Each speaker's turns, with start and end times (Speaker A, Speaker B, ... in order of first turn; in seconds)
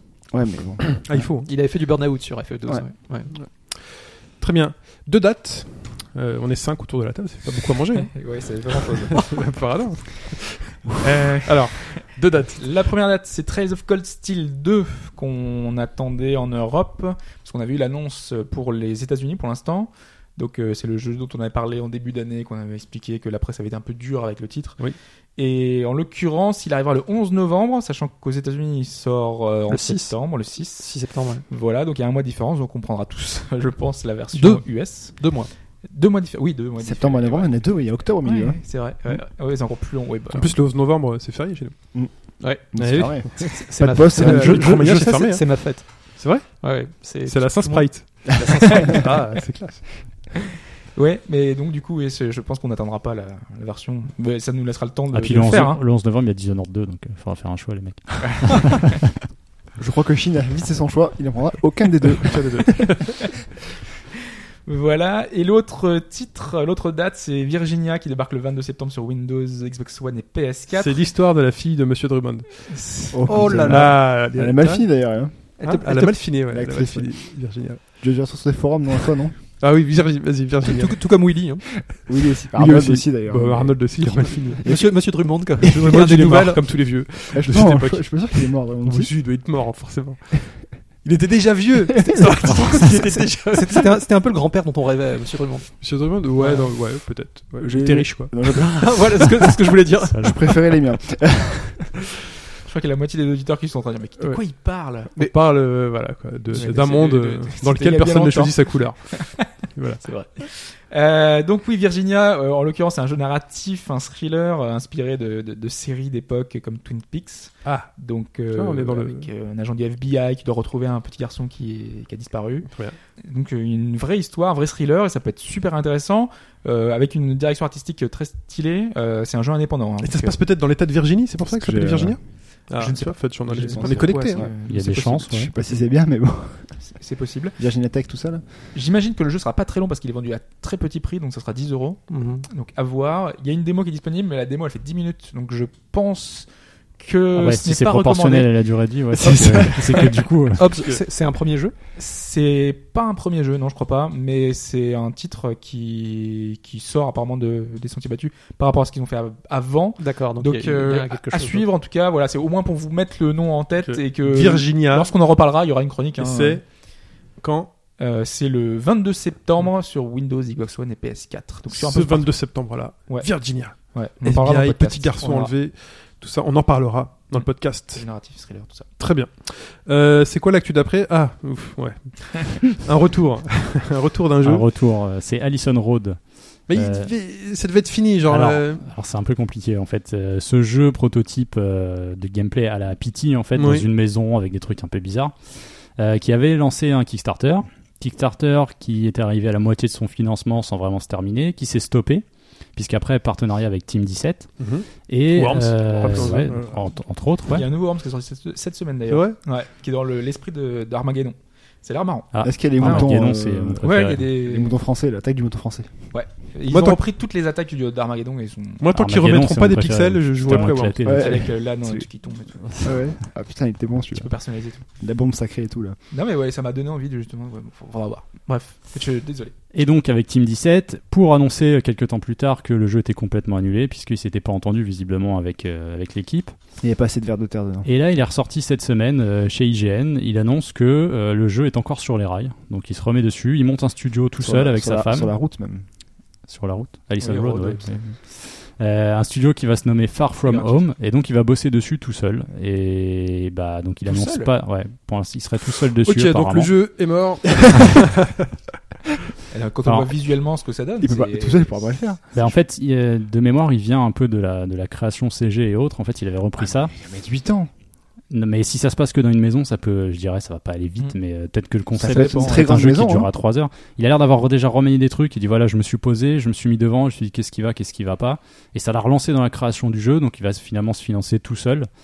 Speaker A: 0.3-1.3, 36.8-38.6, 41.9-45.0, 59.8-62.9, 73.1-79.4, 82.0-85.5, 87.3-89.1, 92.1-92.4, 97.6-99.4, 100.2-101.9, 131.4-132.7, 133.5-137.0, 137.6-138.5, 212.4-215.9, 221.0-221.5, 222.8-224.3, 225.0-226.0, 236.8-237.9, 244.4-245.8, 261.0-262.5, 266.7-267.7, 272.0-273.3
Speaker B: 1.0-1.5, 3.4-12.6, 40.3-42.0, 42.8-50.1, 62.2-63.3, 70.7-72.9, 73.6-77.8, 79.6-81.3, 82.5-84.7, 85.6-93.9, 95.8-98.4, 104.2-104.5, 105.1-110.0, 117.6-117.9, 118.5-119.3, 122.7-123.0, 130.0-134.5, 150.7-151.0, 163.8-165.1, 166.2-167.7, 171.7-178.1, 179.0-184.7, 186.7-188.9, 193.6-193.9, 204.6-206.9, 209.1-209.4, 216.7-217.0, 218.8-221.1, 256.0-258.5
Speaker C: 1.4-3.3, 29.7-31.4, 34.3-35.5, 42.4-49.2, 73.3-74.0, 75.6-76.3, 80.6-81.7, 84.0-86.6, 92.8-95.7, 96.4-96.7, 98.5-100.2, 142.1-142.5, 149.3-149.8, 150.5-151.8, 160.0-161.7
Speaker D: 7.9-9.3, 11.3-12.0, 12.6-40.6, 51.0-55.8, 58.2-58.6, 64.7-71.0, 72.7-73.1, 102.6-105.1, 106.5-109.5, 110.0-130.4, 132.7-135.8, 137.0-137.6, 138.7-148.6, 152.0-166.6, 168.0-175.5, 177.3-178.9, 207.5-213.2, 213.8-214.8, 216.1-218.8, 221.2-222.7, 224.1-224.8, 226.1-229.5, 247.2-247.9, 250.5-250.8, 254.1-254.5, 259.5-261.8, 272.0-272.6
Speaker E: 55.1-58.9, 100.1-100.5, 134.6-135.5, 147.3-150.7, 184.4-187.2, 188.2-207.7, 212.3-214.3, 218.9-221.6, 222.6-223.0, 229.7-236.5, 237.8-245.4, 246.5-256.9, 259.9-260.1, 262.3-267.0, 268.3-281.9